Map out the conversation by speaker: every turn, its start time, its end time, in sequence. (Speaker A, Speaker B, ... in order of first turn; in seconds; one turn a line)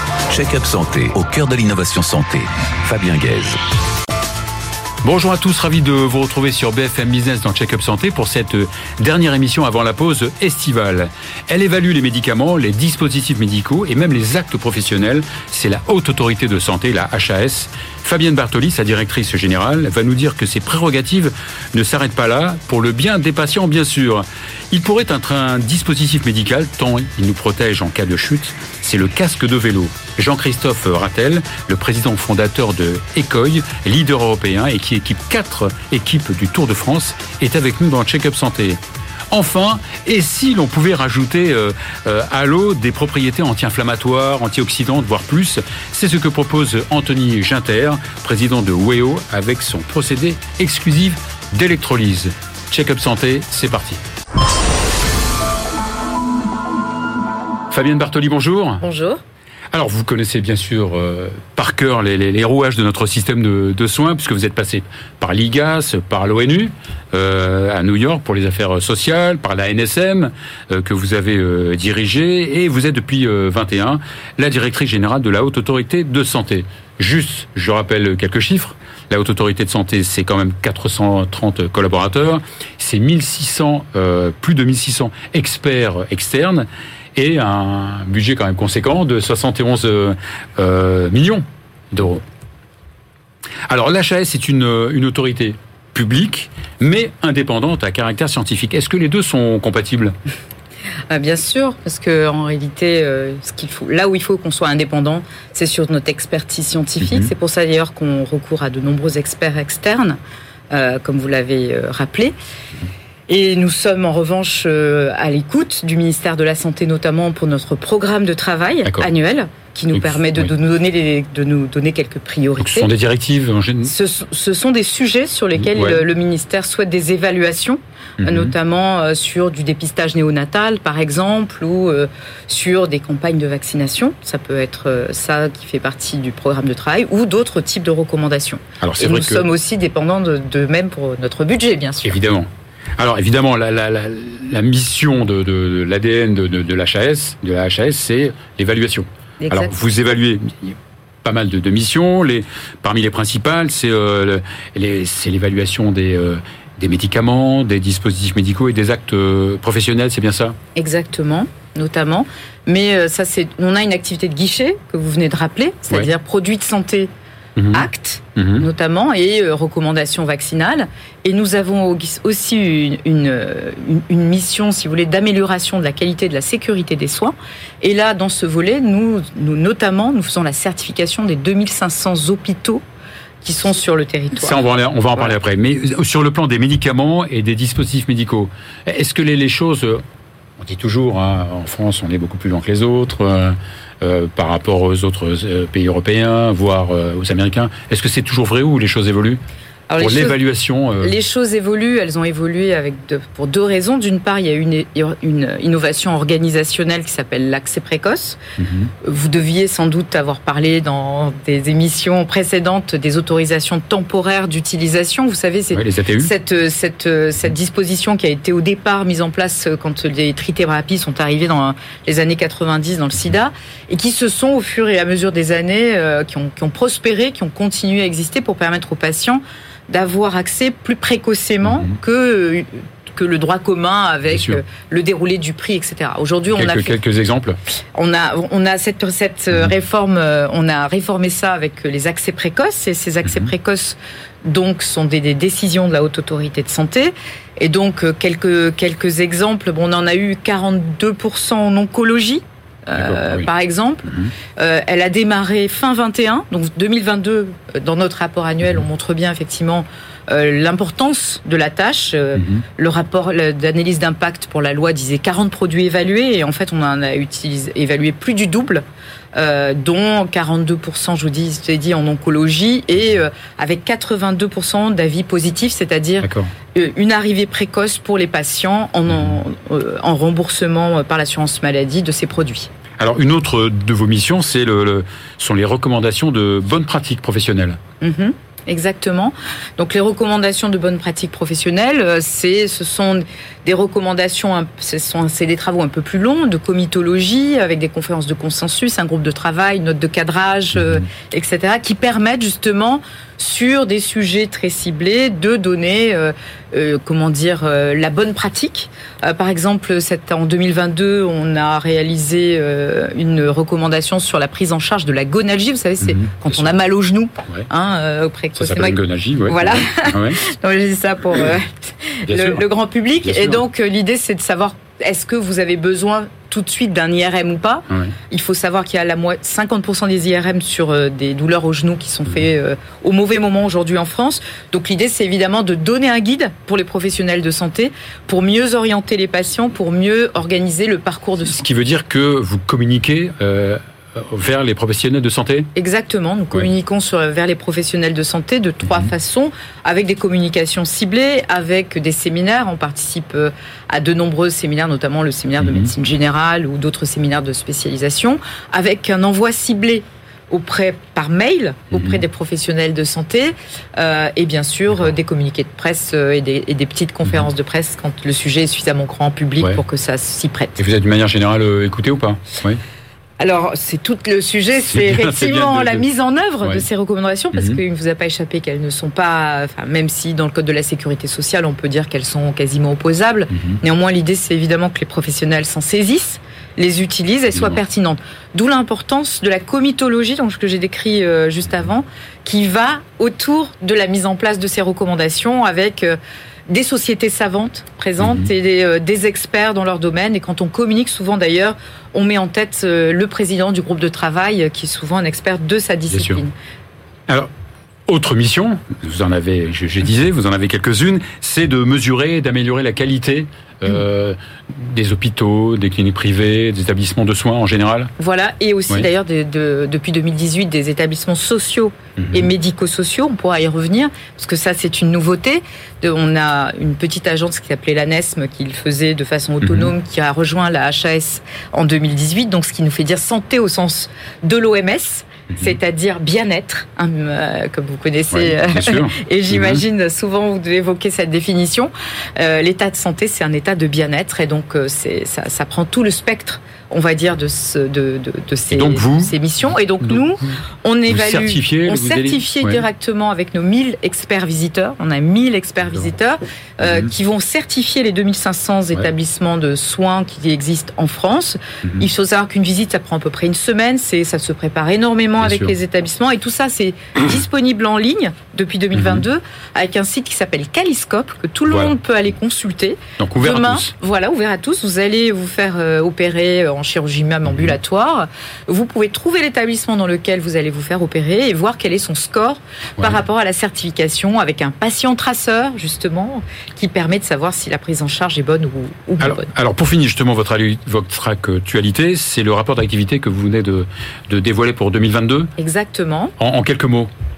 Speaker A: 0.3-3.6
Speaker B: 5.0-38.8
Speaker B: 39.3-54.0
Speaker B: 57.7-58.8
Speaker C: 58.8-59.2
Speaker B: 59.7-92.2
Speaker B: 93.7-100.1
Speaker C: 101.1-110.2
Speaker B: 107.0-107.3
Speaker C: 110.7-112.3
Speaker C: 113.3-122.9
Speaker B: 119.9-120.5
Speaker B: 122.6-123.9
Speaker C: 123.8-142.2
Speaker B: 125.6-126.0
Speaker B: 128.2-128.5
Speaker B: 138.8-139.4
Speaker B: 142.0-160.6
Speaker C: 149.4-149.7
Speaker C: 160.8-167.1
Speaker B: 167.6-168.7
Speaker C: 167.7-182.8
Speaker C: 183.4-184.6
Speaker B: 184.4-190.0
Speaker B: 190.6-199.4
Speaker C: 199.9-200.4
Speaker B: 200.0-201.1
Speaker C: 201.0-208.4
Speaker B: 208.6-208.9
Speaker C: 209.0-237.0
Speaker B: 215.7-216.3
Speaker B: 231.7-231.9
Speaker B: 234.3-234.6
Speaker B: 236.6-237.6
Speaker C: 237.9-268.8
Speaker B: 253.0-253.5
Speaker B: 254.1-254.3
Speaker B: 262.4-262.6
Speaker C: 269.3-282.7
Speaker B: 276.2-276.5
Speaker B: 283.0-287.8
Speaker C: 288.0-341.6
Speaker B: 316.0-316.6
Speaker B: 318.6-320.4
Speaker B: 322.3-322.6
Speaker B: 323.2-323.6
Speaker B: 327.9-328.1
Speaker B: 341.4-345.7
Speaker C: 345.7-370.8
Speaker B: 355.6-355.9
Speaker B: 361.9-362.2
Speaker B: 370.8-372.8
Speaker C: 373.4-406.5
Speaker B: 374.9-376.0
Speaker B: 377.5-377.8
Speaker B: 383.5-383.8
Speaker B: 387.5-387.8
Speaker B: 398.2-398.5
Speaker B: 406.1-406.4
Speaker B: 408.1-418.1
Speaker C: 418.2-489.5
Speaker B: 422.2-422.5
Speaker B: 429.6-429.9
Speaker B: 438.3-439.8
Speaker B: 448.7-449.3
Speaker B: 450.0-450.5
Speaker B: 451.1-452.8
Speaker B: 465.4-465.7
Speaker B: 468.9-469.2
Speaker B: 473.2-473.9
Speaker B: 489.2-495.5
Speaker C: 495.6-496.3
Speaker B: 496.4-497.1